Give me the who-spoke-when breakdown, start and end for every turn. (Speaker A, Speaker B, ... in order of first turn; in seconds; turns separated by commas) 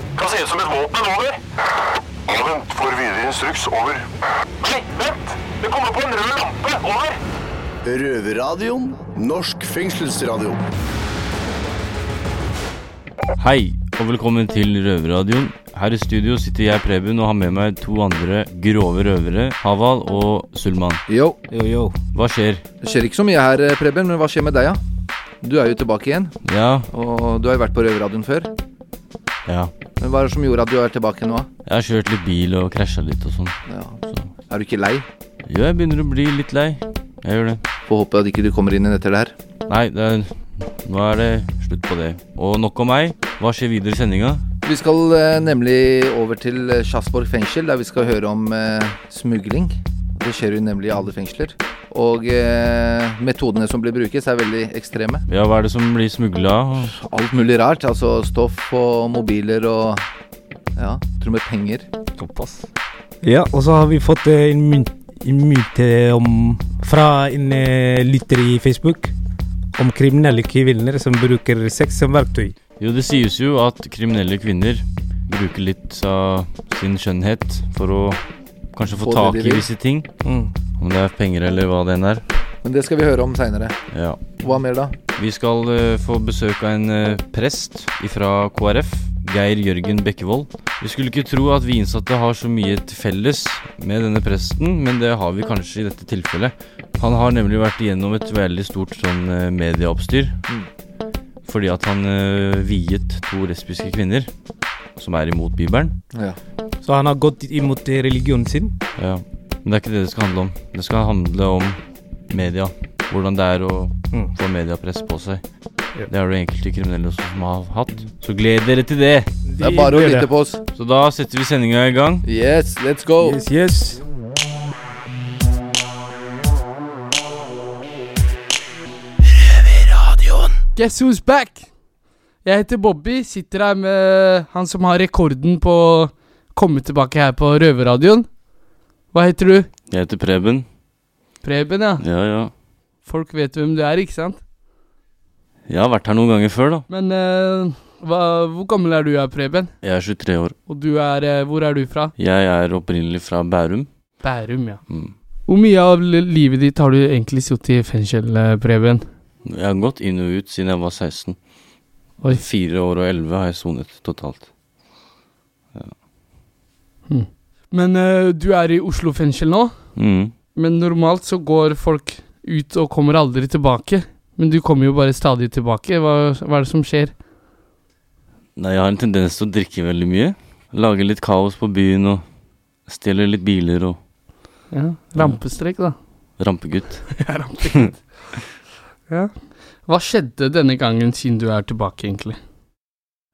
Speaker A: 0.1-1.4, Speaker A: 2.3-4.0, Speaker A: 4.6-7.2, Speaker B: 7.8-10.6, Speaker C: 13.4-21.0, Speaker D: 21.1-21.4, Speaker E: 21.5-21.9, Speaker C: 22.1-22.6, Speaker D: 22.8-24.8, Speaker D: 25.4-26.3, Speaker C: 26.4-26.9, Speaker D: 26.9-28.5, Speaker C: 29.4-29.7, Speaker D: 30.0-31.5, Speaker C: 31.6-34.3, Speaker D: 33.7-35.0, Speaker C: 35.4-37.6, Speaker D: 37.9-39.3, Speaker C: 39.7-44.4, Speaker D: 44.6-55.2, Speaker C: 55.3-56.9, Speaker D: 56.9-60.0, Speaker D: 60.8-61.9, Speaker E: 62.2-62.6, Speaker E: 63.2-69.1, Speaker E: 69.8-72.5, Speaker C: 72.8-78.2, Speaker C: 78.7-80.1, Speaker D: 79.0-79.7, Speaker E: 80.2-80.5, Speaker C: 80.8-82.2, Speaker D: 82.6-83.7, Speaker C: 83.9-84.2, Speaker D: 84.4-84.9, Speaker C: 85.2-100.4, Speaker C: 101.4-104.3, Speaker C: 105.0-106.0, Speaker E: 106.8-108.7, Speaker C: 109.0-115.4, Speaker C: 116.1-119.3, Speaker E: 119.4-120.3, Speaker D: 119.6-120.6, Speaker C: 120.7-122.2, Speaker D: 122.2-123.4, Speaker E: 123.2-124.0, Speaker F: 130.7-131.7, Speaker F: 132.4-138.3, Speaker F: 139.1-139.7, Speaker C: 139.9-140.7, Speaker F: 141.4-142.0, Speaker C: 142.0-142.5, Speaker F: 143.0-144.4, Speaker C: 145.7-146.9, Speaker F: 146.9-149.7, Speaker C: 149.8-150.5, Speaker F: 150.7-152.1, Speaker C: 152.2-153.9, Speaker F: 154.2-154.8, Speaker C: 154.9-155.1, Speaker F: 155.5-159.1, Speaker C: 159.4-161.4, Speaker C: 162.2-164.5, Speaker F: 167.1-169.9, Speaker C: 169.9-170.3, Speaker F: 170.5-177.1, Speaker C: 178.6-182.2, Speaker C: 182.9-184.0, Speaker F: 184.7-185.9, Speaker C: 185.2-185.4, Speaker C: 186.4-187.2, Speaker F: 187.2-187.9, Speaker F: 189.1-192.4